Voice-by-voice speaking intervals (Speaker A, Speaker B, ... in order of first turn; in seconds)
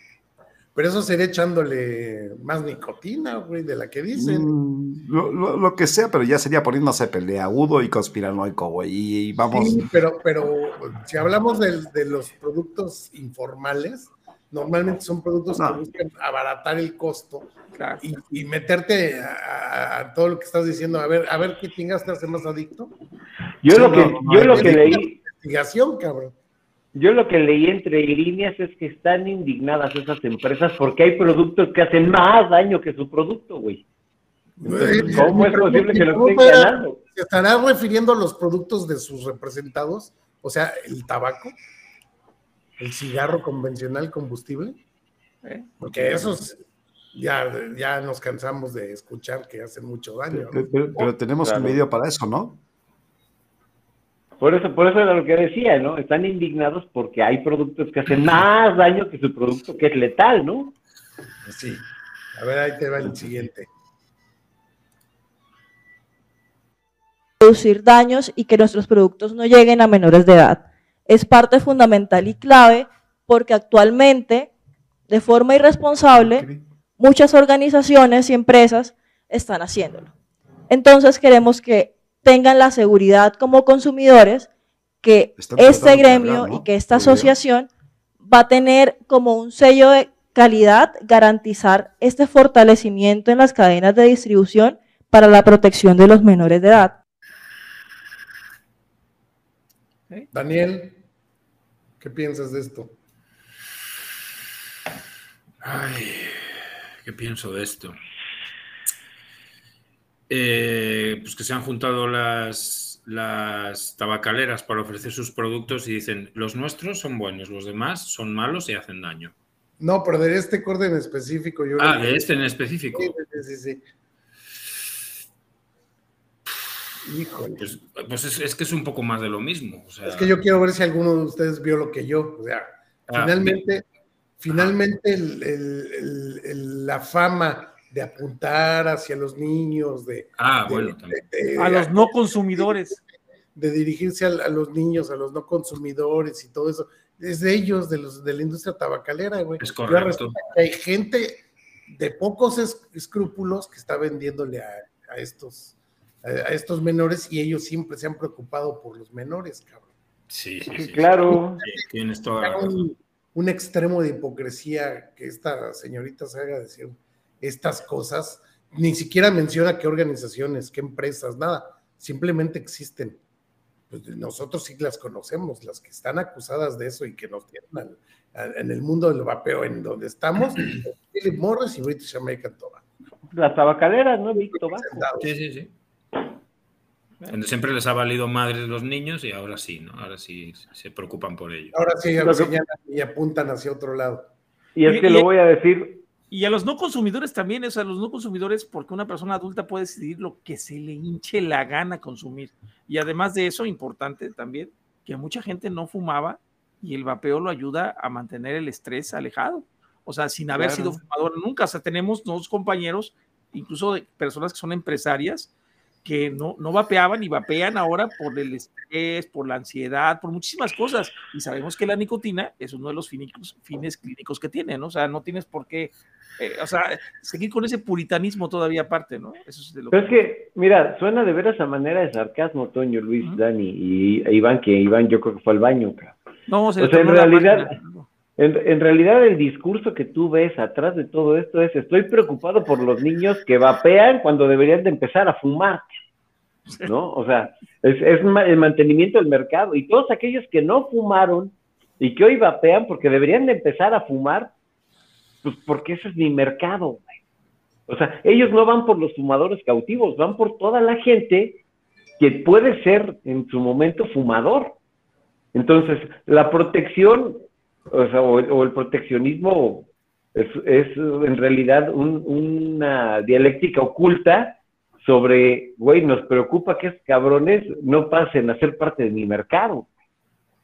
Speaker A: 0.8-4.5, 9.5-17.5, 18.0-22.9, 23.7-26.3, 34.6-41.5, 42.8-44.8, 45.8-46.6, 47.1-50.6, 61.5-61.8, 62.4-63.7, 100.3-101.0, 102.0-103.0, 119.8-122.3, 122.9-123.8, 127.0-127.7, 130.0-133.8, 134.4-143.0, 143.6-159.9, 162.4-173.2, 173.9-182.8, 184.7-185.3, 191.7-194.3
Speaker B: 4.2-9.8, 15.6-15.8, 23.7-25.0, 34.6-35.5, 46.0-46.3, 50.3-52.6, 76.1-76.6, 85.4-87.4
Speaker C: 17.8-18.0, 45.4-45.7, 141.6-143.0, 194.9-195.3, 196.3-215.5, 216.1-230.2, 236.5-238.1
Speaker D: 23.6-25.1, 26.9-33.9, 35.0-37.0, 51.4-51.8, 54.4-60.8, 160.8-161.6, 183.3-185.1, 192.2-192.6, 194.8-196.0, 210.5-211.0, 229.9-236.2, 236.8-237.7, 238.4-245.9, 246.8-254.5, 255.4-257.2, 257.9-261.6, 262.2-264.8, 265.5-279.9
Speaker E: 67.4-74.5, 75.1-76.5, 77.0-80.1, 80.7-84.5, 85.0-87.7, 88.2-97.0
Speaker F: 105.6-106.4, 107.0-108.0, 110.3-119.3, 121.8-123.1, 127.6-130.3, 133.1-133.6, 140.4-141.2, 149.6-150.4, 160.3-162.8, 185.2-185.7, 187.3-191.7